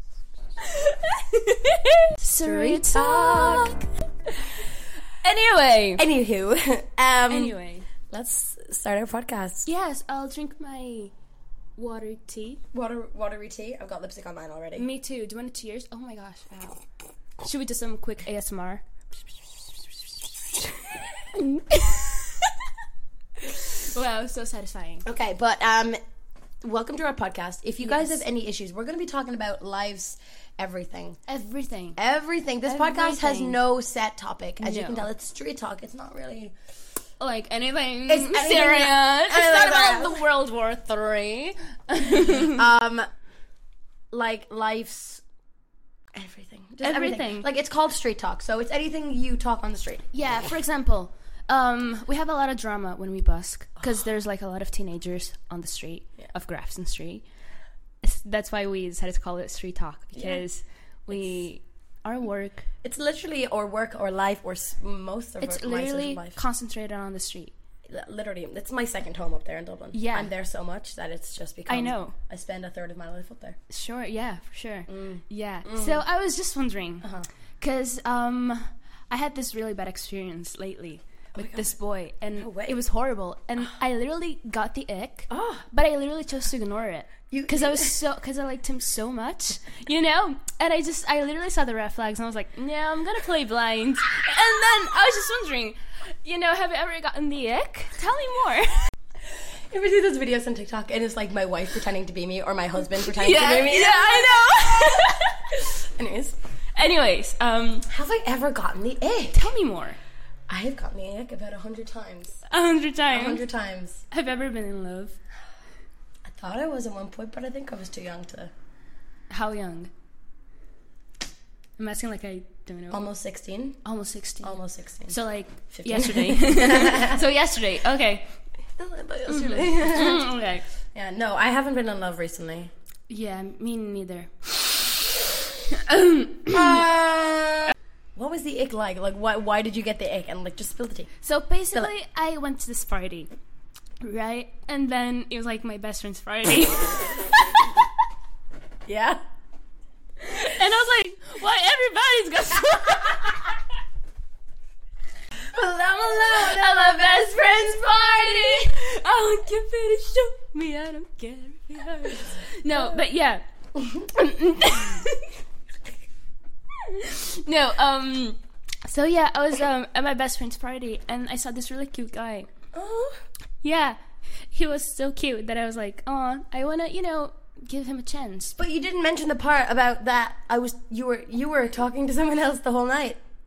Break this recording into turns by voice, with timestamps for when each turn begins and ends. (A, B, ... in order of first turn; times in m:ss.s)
0:00.6-0:04.7 A
0:02.4-0:03.7 B
0:05.2-0:06.0 A
0:06.0-0:07.6 B
0:07.3-0:07.9 A
0:08.1-0:09.7 B
0:09.6-0:11.1 A
0:11.8-0:12.6 A
0:12.7-0:14.9 B
0:14.8-0:16.8 A
0:17.4-0:18.8 A
0:20.2-0:22.7 A
0:23.4-0:25.0 A
0:25.0-0:26.0 B
0:26.6-0:31.2 B
0:27.8-0:28.2 A
0:31.3-0:32.0 A
0:32.0-0:36.6 B
0:32.6-0:33.6 A
0:34.6-0:35.1 A
0:37.2-0:42.6 A
0:38.1-0:40.2 B
0:42.3-0:43.1 B
0:44.1-0:45.2 B
0:46.1-0:50.1 B
0:46.8-0:47.5 A
0:50.1-0:57.2 A
0:58.0-1:02.7 A
1:00.1-1:00.4 B
1:01.1-1:01.5 B
1:02.8-1:06.4 B
1:05.4-1:07.5 A
1:07.8-1:13.6 B
1:09.9-1:10.3 A
1:11.6-1:12.2 A
1:13.7-1:17.1 A
1:14.9-1:16.0 B
1:17.0-1:17.3 B
1:17.6-1:38.9 A
1:21.4-1:21.7 B
1:22.3-1:22.8 B
1:25.3-1:25.7 B
1:27.3-1:28.0 B
1:39.3-1:45.0 B
1:42.9-1:45.6 A
1:45.7-1:46.4 B
1:46.7-1:47.9 A
1:47.9-1:49.5 B
1:49.3-1:50.0 A
1:50.5-1:52.4 B
1:52.5-1:53.5 A
1:53.1-1:54.0 B
1:54.1-1:55.2 A
1:56.3-1:58.5 B
1:59.3-1:59.9 A
2:01.8-2:03.0 A
2:02.9-2:03.8 B
2:03.8-2:08.4 A
2:04.4-2:05.2 B
2:05.7-2:07.2 B
2:08.8-2:10.3 B
2:09.2-2:10.6 A
2:10.9-2:12.7 B
2:13.1-2:15.0 A
2:15.7-2:16.8 A
2:16.5-2:21.1 B
2:21.2-2:23.3 A
2:24.0-2:27.9 A
2:28.8-2:29.2 B
2:30.2-2:33.6 A
2:35.5-2:38.7 B
2:35.8-2:45.4 A
2:46.7-2:52.5 A
2:52.7-2:53.2 B
2:53.6-2:58.6 A
2:58.6-3:03.2 B